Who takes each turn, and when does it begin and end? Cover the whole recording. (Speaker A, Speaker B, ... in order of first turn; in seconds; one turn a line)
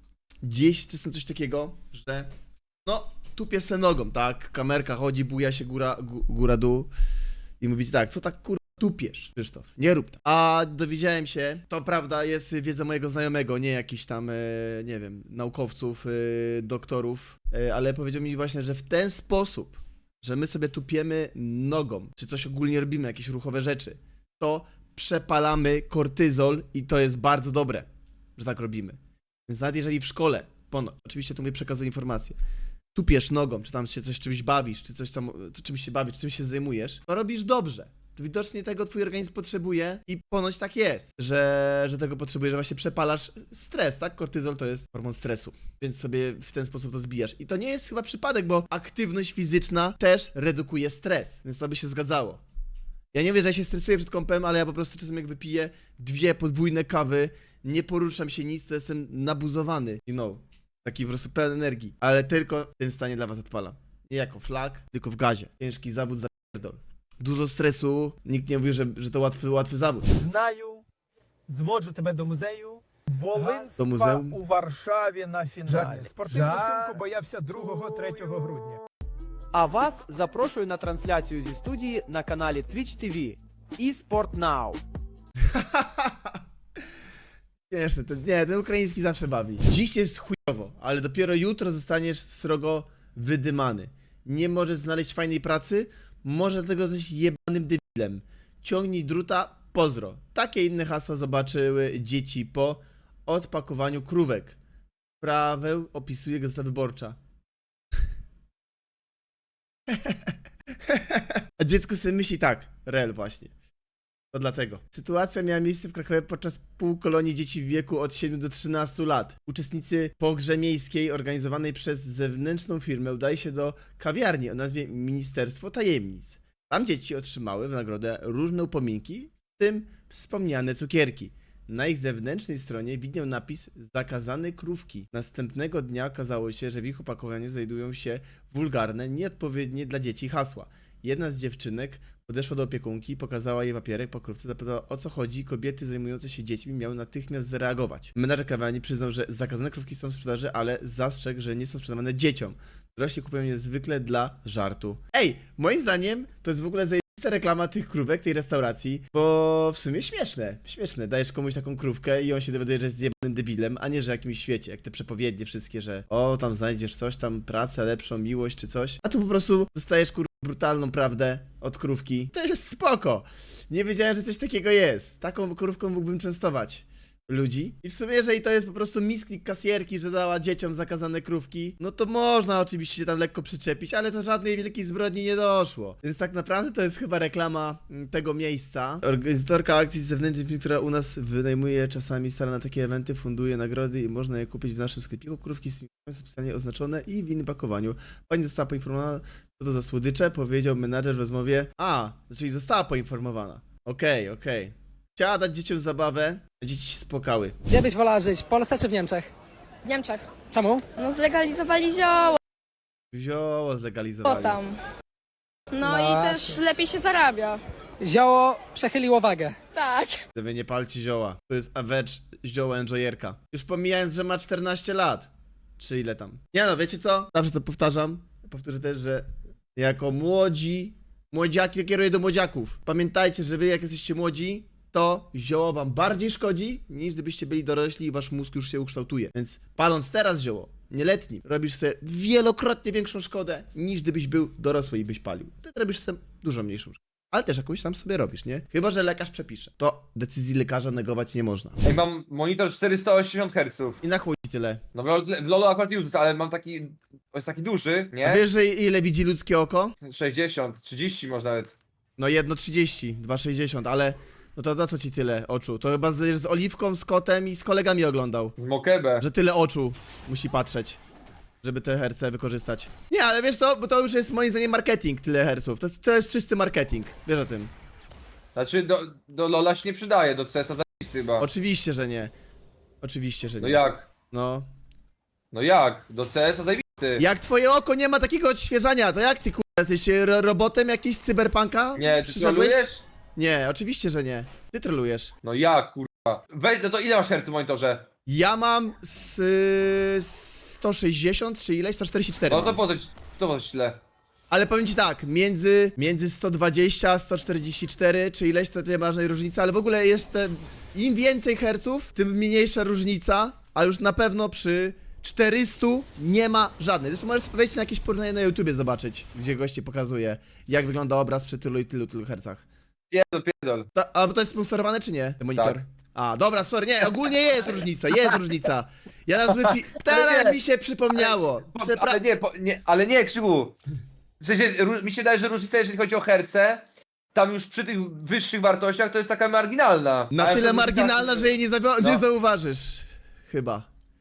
Speaker A: 0.4-2.3
Speaker A: 2.9-6.9
Speaker A: 7.6-32.4
Speaker A: 32.9-52.4
Speaker A: 53.1-70.1
Speaker B: 70.1-70.8
Speaker B: 71.5-78.8
Speaker A: 73.8-74.4
Speaker C: 75.7-76.9
Speaker C: 79.5-84.8
Speaker A: 85.4-86.4
Speaker A: 87.7-104.6
Speaker A: 105.2-107.2
Speaker A: 109.9-110.3
Speaker A: 110.8-113.5
Speaker A: 114.3-207.6
Speaker D: 207.7-209.3
Speaker E: 209.8-210.3
Speaker D: 210.5-210.8
Speaker E: 211.0-212.4
Speaker A: 213.1-214.6
Speaker E: 214.2-214.8
Speaker E: 215.7-217.6
Speaker D: 215.8-216.6
Speaker D: 218.0-219.6
Speaker E: 219.7-220.2
Speaker A: 220.3-251.8
Speaker F: 251.8-254.0
Speaker A: 254.0-254.8
Speaker F: 254.9-258.4
Speaker A: 258.2-259.9
Speaker F: 260.0-261.8
Speaker A: 262.2-268.6
Speaker F: 268.6-269.2
Speaker A: 269.2-271.0
Speaker A: 271.6-277.7
Speaker F: 278.6-281.5
Speaker A: 281.4-282.3
Speaker A: 283.0-284.7
Speaker F: 283.6-284.1
Speaker F: 285.5-287.2
Speaker A: 287.2-295.3
Speaker F: 292.0-293.1
Speaker F: 295.4-298.1
Speaker A: 298.2-302.8
Speaker F: 302.5-304.0
Speaker A: 304.5-322.6
Speaker F: 323.1-323.9
Speaker A: 323.9-332.2
Speaker F: 329.5-330.6
Speaker F: 331.1-333.8
Speaker F: 334.4-336.8
Speaker F: 337.3-342.2
Speaker A: 340.3-343.9